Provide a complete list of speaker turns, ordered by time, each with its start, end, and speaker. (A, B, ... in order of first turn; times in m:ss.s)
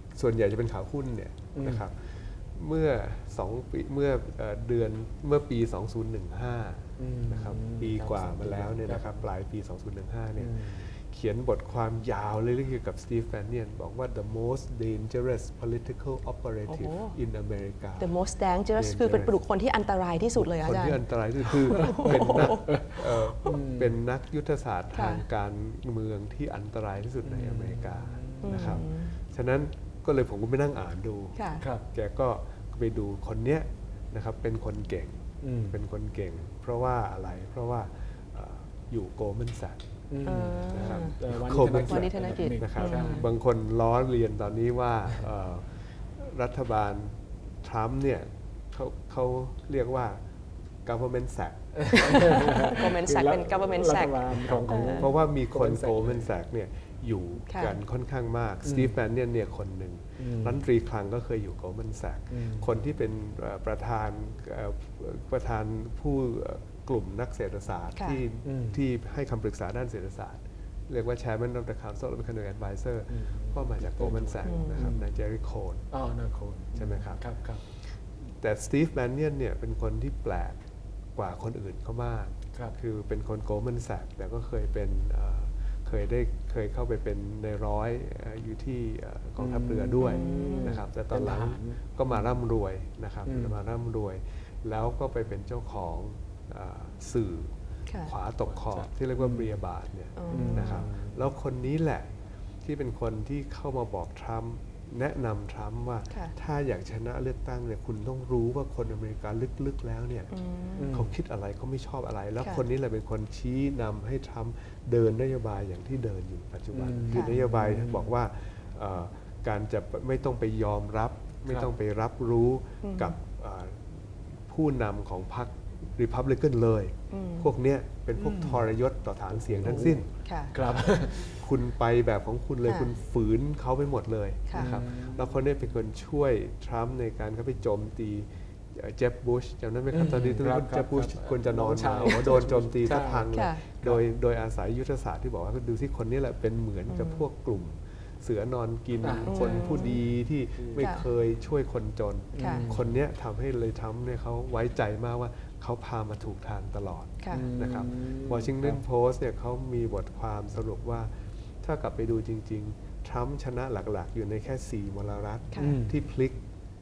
0:00.1-0:18.2 A
0:01.6-0:01.9 B
0:07.0-0:09.3 B
0:10.4-0:10.9 B
0:16.7-0:17.2 C
0:18.0-0:21.0 C
0:18.8-0:19.4 A
0:20.4-0:39.8 A
0:21.5-0:24.0 B
0:21.7-0:22.8 C
0:24.9-0:25.2 C
0:27.2-0:28.8 B
0:28.4-0:29.2 C
0:31.4-0:31.7 C
0:31.6-0:31.9 B
0:35.4-0:35.8 B
0:40.1-0:43.3 B
0:40.2-0:41.2 C
0:40.7-0:50.2 A
0:41.7-0:43.3 C
0:50.8-0:52.6 A
0:51.8-0:56.3 B
0:52.0-0:55.1 C
0:54.4-1:15.9 A
0:57.5-0:57.8 C
0:58.6-0:59.0 B
1:00.2-1:00.6 B
1:02.3-1:02.7 B
1:08.0-1:08.2 C
1:08.4-1:08.8 B
1:13.1-1:15.1 B
1:14.4-1:15.0 C
1:15.9-1:17.6 B
1:16.8-1:20.6 A
1:21.2-1:42.1 A
1:29.4-1:32.4 B
1:30.0-1:30.8 C
1:33.3-1:33.6 B
1:37.9-1:38.1 C
1:38.4-1:39.6 B
1:40.2-1:40.9 C
1:40.3-1:41.3 B
1:42.6-1:50.3 A
1:50.3-1:51.0 C
1:50.8-1:51.2 B
1:50.9-2:46.4 A
1:56.7-1:58.2 B
1:57.1-1:57.4 C
2:02.8-2:03.2 C
2:07.1-2:07.6 C
2:08.2-2:08.7 B
2:09.4-2:11.4 B
2:10.2-2:10.6 C
2:12.6-2:12.9 C
2:14.5-2:14.8 C
2:14.5-2:15.4 B
2:19.9-2:23.3 B
2:23.3-2:23.6 C
2:26.9-2:27.2 C
2:29.0-2:30.0 B
2:29.2-2:30.0 C
2:30.6-2:30.9 B
2:30.8-2:31.1 C
2:32.3-2:33.0 B
2:32.4-2:32.7 C
2:37.2-2:37.5 C
2:37.3-2:38.8 B
2:45.6-2:46.1 B